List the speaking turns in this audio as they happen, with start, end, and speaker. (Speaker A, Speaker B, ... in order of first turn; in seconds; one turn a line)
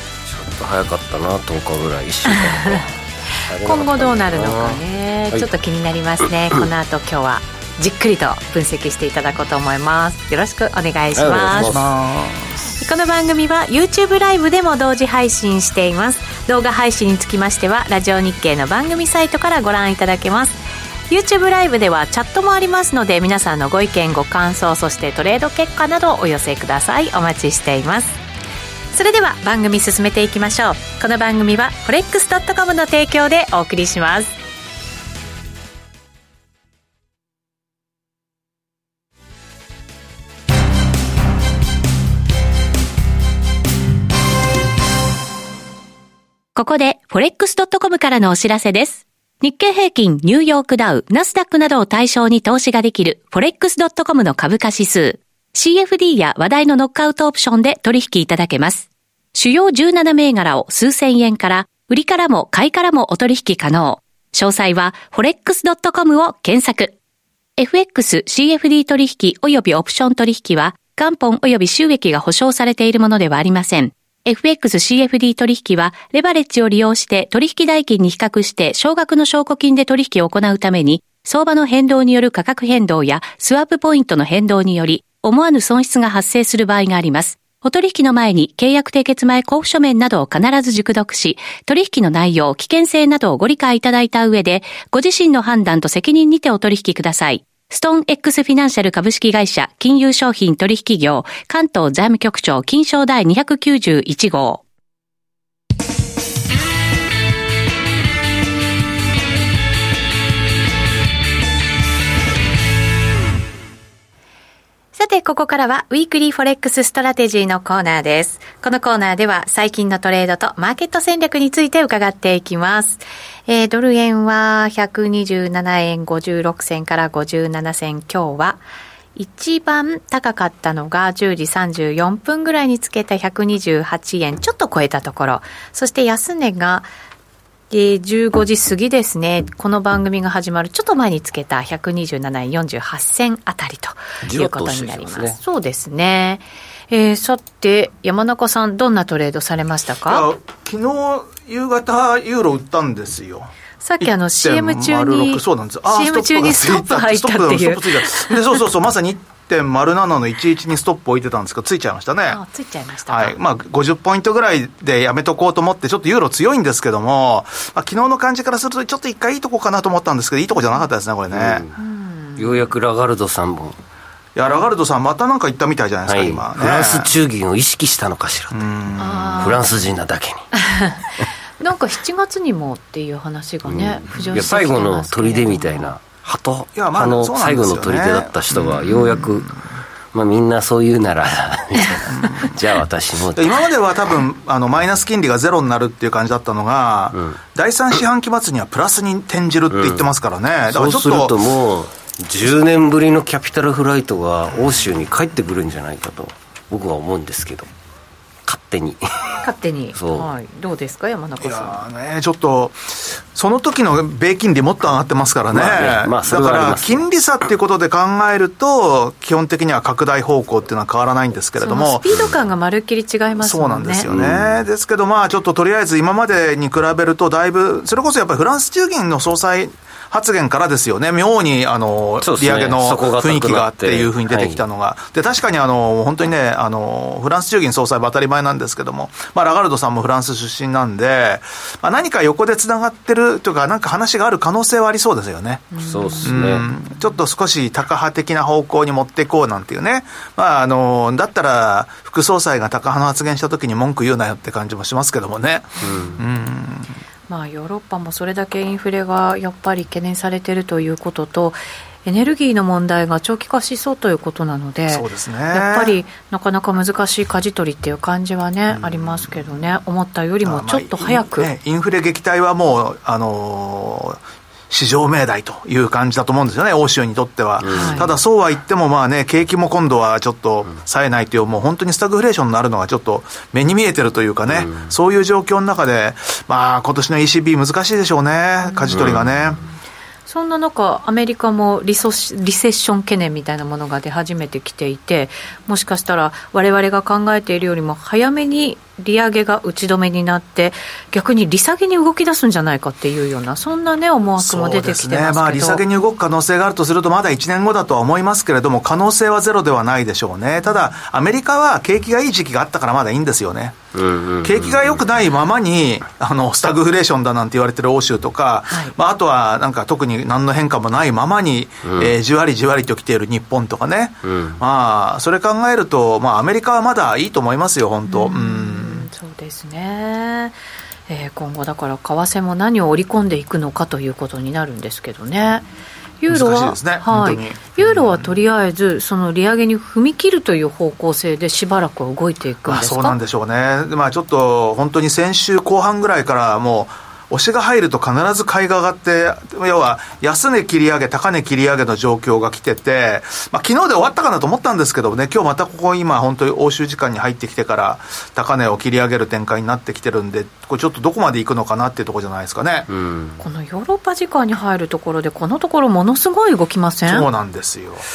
Speaker A: 0.3-4.8
Speaker B: 2.3-2.8
Speaker B: 3.5-11.8
Speaker A: 11.2-11.9
Speaker C: 11.7-12.7
Speaker B: 12.8-20.6
Speaker B: 21.1-28.2
Speaker B: 28.9-34.4
Speaker B: 46.5-67.0
Speaker B: 67.6-104.6
Speaker B: 115.0-128.6
Speaker B: 129.2-136.9
Speaker B: 137.7-150.3
Speaker A: 144.3-145.4
Speaker C: 150.1-153.5
Speaker B: 153.8-158.6
Speaker C: 154.0-162.4
Speaker B: 162.3-163.4
Speaker C: 163.1-171.6
Speaker A: 171.3-171.8
Speaker B: 171.8-172.7
Speaker A: 172.4-173.8
Speaker C: 174.3-177.1
Speaker A: 176.1-180.5
Speaker C: 178.5-179.6
Speaker B: 179.0-179.7
Speaker B: 180.6-181.1
Speaker B: 181.6-185.9
Speaker A: 183.7-189.5
Speaker C: 186.8-189.5
Speaker A: 190.1-193.6
Speaker B: 191.8-192.1
Speaker C: 192.1-192.6
Speaker C: 193.3-201.3
Speaker A: 197.1-197.4
Speaker A: 199.7-200.1
Speaker A: 200.7-207.7
Speaker A: 208.5-209.4
Speaker B: 209.4-211.8
Speaker A: 210.0-210.3
Speaker C: 211.4-222.1
Speaker A: 215.5-217.1
Speaker B: 221.6-224.1
Speaker C: 223.4-257.0
Speaker A: 224.1-224.6
Speaker A: 232.2-234.6
Speaker B: 245.7-246.7
Speaker A: 245.8-246.7
Speaker A: 255.8-256.2
Speaker B: 255.9-256.2
Speaker B: 257.3-271.5
Speaker C: 264.9-266.0
Speaker C: 268.7-269.3
Speaker C: 270.4-289.6
Speaker A: 277.6-278.1
Speaker B: 277.7-278.1
Speaker A: 284.5-284.9
Speaker B: 288.6-289.1
Speaker A: 288.9-289.3
Speaker B: 290.3-305.8
Speaker C: 304.4-313.8
Speaker A: 313.9-315.0
Speaker C: 314.4-329.1
Speaker B: 318.7-318.9
Speaker A: 321.8-322.1
Speaker A: 324.2-324.6
Speaker B: 328.1-330.6
Speaker B: 331.1-335.7
Speaker B: 336.2-343.2
Speaker C: 336.3-338.3
Speaker C: 342.7-362.9
Speaker A: 362.9-363.4
Speaker B: 363.4-367.3
Speaker C: 367.1-368.1